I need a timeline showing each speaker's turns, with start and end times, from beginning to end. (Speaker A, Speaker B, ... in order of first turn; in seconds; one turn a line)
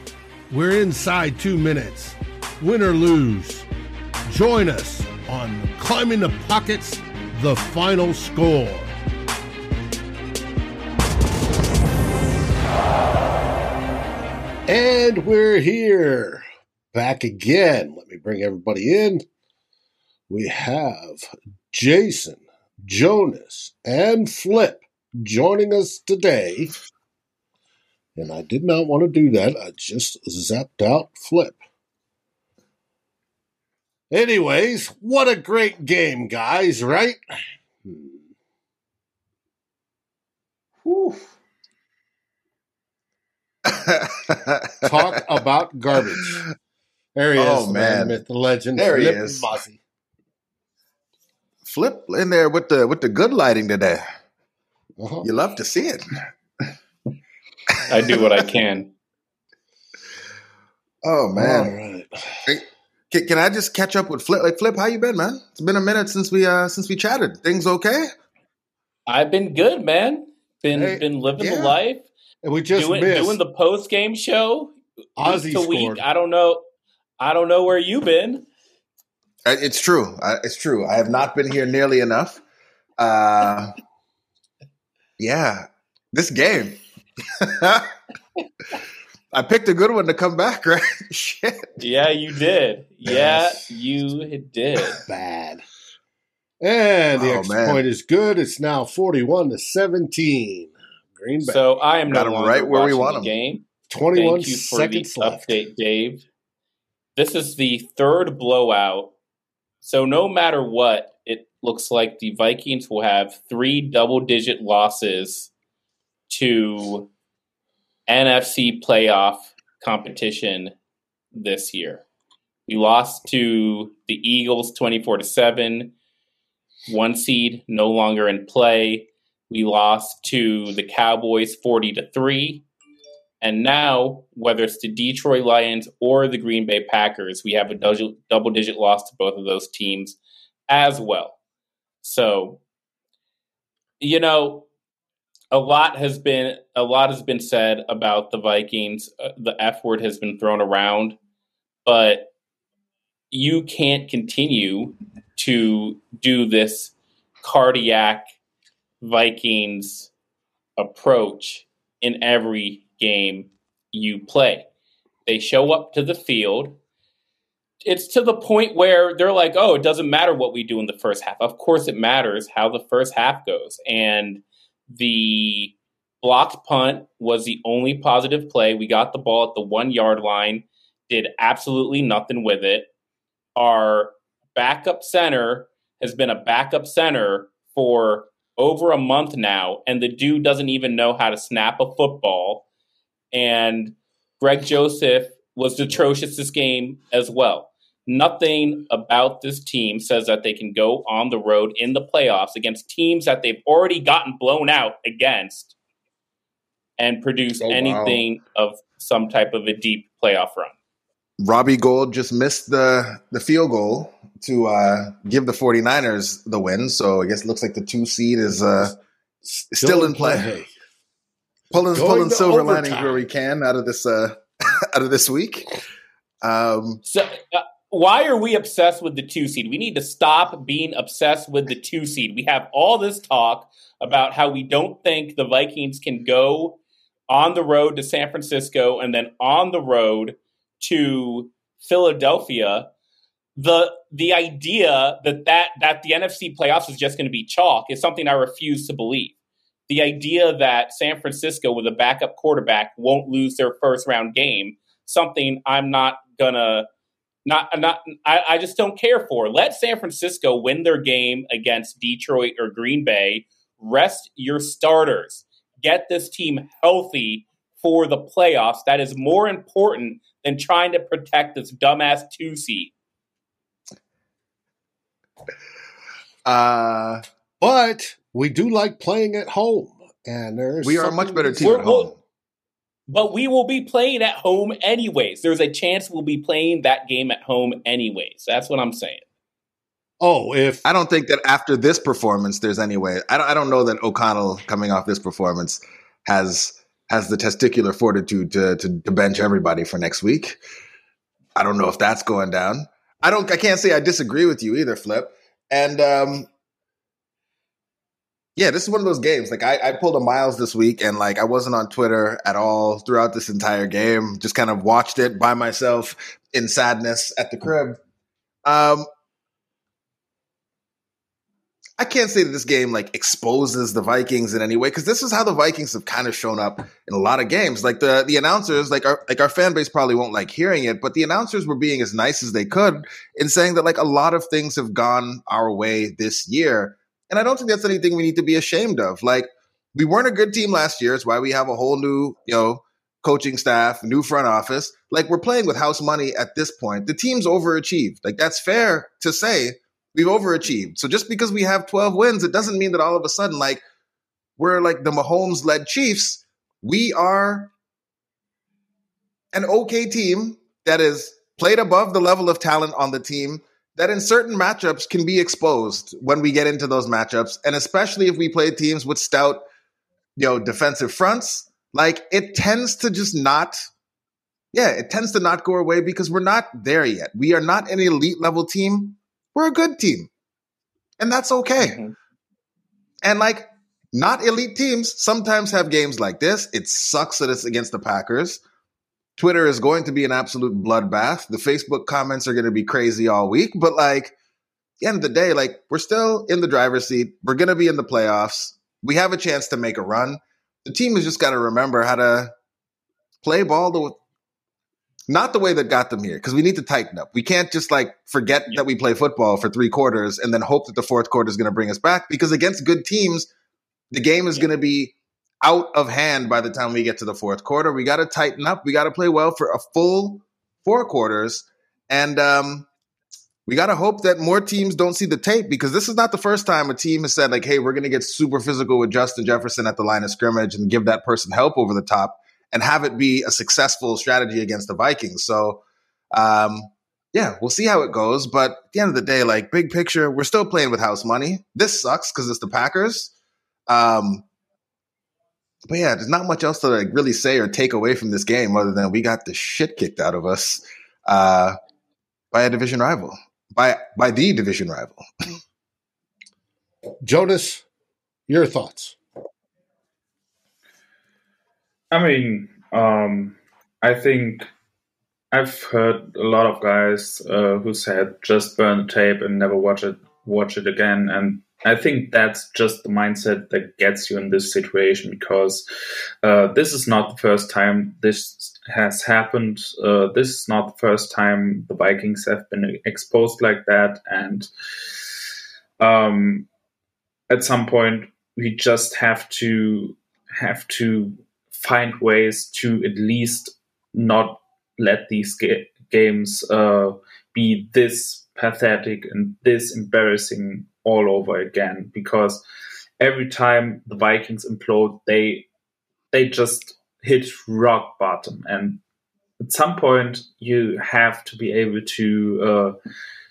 Speaker A: 0.5-3.7
Speaker A: 4.3-8.9
Speaker A: 14.7-19.2
Speaker A: 20.3-26.7
Speaker A: 28.2-31.6
Speaker A: 34.1-37.2
Speaker A: 37.8-38.2
Speaker B: 40.8-41.3
Speaker B: 43.6-45.2
Speaker A: 44.8-46.5
Speaker B: 46.0-46.4
Speaker A: 47.1-49.8
Speaker B: 47.4-48.2
Speaker B: 48.8-49.5
Speaker B: 51.6-54.0
Speaker A: 55.0-55.3
Speaker B: 55.2-56.0
Speaker B: 57.7-58.6
Speaker C: 57.9-58.9
Speaker B: 61.0-61.7
Speaker A: 61.4-62.5
Speaker B: 62.5-68.1
Speaker C: 69.1-72.1
Speaker A: 70.7-71.0
Speaker B: 71.4-71.8
Speaker A: 72.4-73.4
Speaker C: 72.7-76.6
Speaker A: 75.2-76.0
Speaker C: 77.2-78.5
Speaker B: 79.5-82.4
Speaker B: 83.0-83.7
Speaker B: 85.2-86.8
Speaker B: 87.4-87.9
Speaker B: 89.3-91.7
Speaker C: 91.8-95.0
Speaker A: 93.1-93.6
Speaker A: 95.1-95.7
Speaker A: 96.6-101.6
Speaker B: 97.2-97.8
Speaker C: 101.4-106.3
Speaker B: 102.1-103.3
Speaker A: 103.9-105.5
Speaker C: 107.2-109.1
Speaker C: 109.8-115.5
Speaker C: 116.3-117.1
Speaker C: 118.1-120.7
Speaker C: 121.3-122.0
Speaker C: 122.7-125.9
Speaker C: 126.9-132.7
Speaker C: 133.4-140.2
Speaker C: 140.7-141.4
Speaker C: 142.0-142.6
Speaker C: 144.0-144.7
Speaker C: 145.5-151.2
Speaker C: 151.8-152.3
Speaker C: 153.3-158.3
Speaker C: 159.0-160.1
Speaker C: 160.8-164.7
Speaker C: 165.3-166.8
Speaker C: 167.8-182.9
Speaker C: 183.6-192.7
Speaker C: 193.3-205.7
Speaker C: 207.0-210.8
Speaker B: 207.6-208.2
Speaker B: 211.4-219.0
Speaker A: 219.4-220.7
Speaker B: 219.7-220.5
Speaker B: 221.7-225.7
Speaker A: 221.9-223.2
Speaker B: 226.4-227.0
Speaker C: 227.1-242.9
Speaker C: 243.6-249.3
Speaker C: 249.9-256.9
Speaker C: 257.5-272.9
Speaker B: 276.4-277.2
Speaker A: 277.6-281.9
Speaker B: 280.8-282.2
Speaker C: 281.6-282.1
Speaker C: 283.1-289.2
Speaker A: 290.2-290.9
Speaker B: 290.9-300.6
Speaker B: 301.6-306.5
Speaker B: 308.6-318.0
Speaker B: 318.6-319.1
Speaker B: 322.0-353.8
Speaker B: 354.6-357.7
Speaker B: 359.5-369.6
Speaker B: 370.4-373.8
Speaker B: 374.7-380.3
Speaker B: 381.2-382.0
Speaker C: 381.8-382.1
Speaker B: 383.2-388.6
Speaker B: 389.4-394.3
Speaker B: 395.0-402.5
Speaker B: 403.4-404.2
Speaker B: 405.3-413.5
Speaker B: 414.1-422.9
Speaker B: 423.7-435.8
Speaker B: 436.3-443.3
Speaker B: 443.9-444.4
Speaker B: 445.9-451.8
Speaker B: 452.5-455.2
Speaker A: 457.2-457.9
Speaker A: 458.5-459.2
Speaker D: 462.1-464.7
Speaker D: 465.5-475.9
Speaker D: 476.4-484.7
Speaker D: 486.0-486.7
Speaker D: 487.5-502.6
Speaker D: 503.2-505.7
Speaker D: 506.3-509.0
Speaker D: 509.6-513.0